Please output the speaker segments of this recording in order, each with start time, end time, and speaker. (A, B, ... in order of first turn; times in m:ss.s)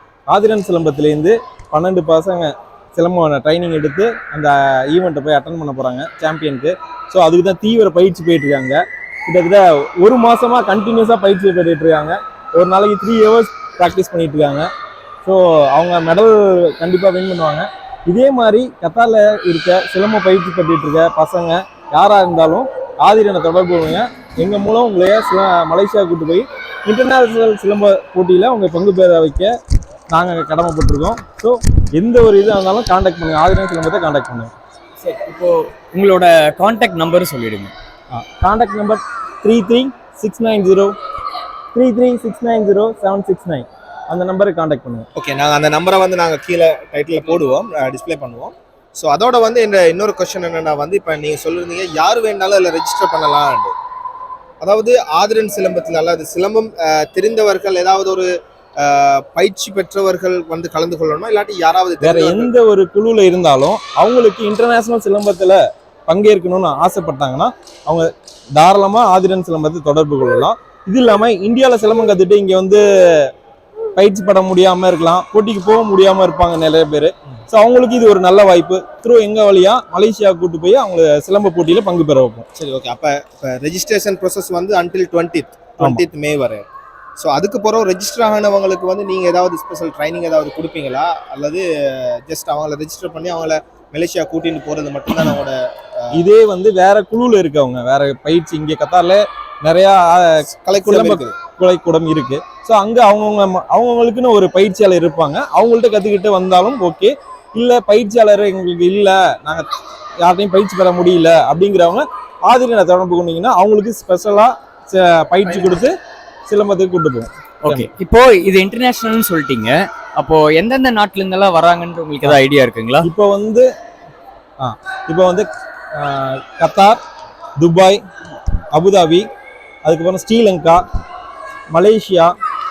0:00.3-0:14.7 A
0:15.2-0:29.5 A
0:30.1-0:34.5 A
0:35.0-0:37.7 B
0:38.1-0:41.0 A
0:41.7-0:45.1 A
0:45.2-0:53.7 C
0:54.6-0:58.3 C
0:58.8-1:02.5 C
1:02.0-1:13.3 A
1:14.0-1:22.5 A
1:22.6-1:26.6 C
1:27.2-1:36.2 C
1:36.1-1:49.7 A
1:40.5-1:41.4 C
1:50.2-1:57.9 A
1:57.6-2:03.1 B
2:03.0-2:03.7 A
2:04.6-2:07.0 A
2:07.6-2:08.0 A
2:08.7-2:09.3 A
2:09.8-2:10.9 A
2:11.7-2:12.4 A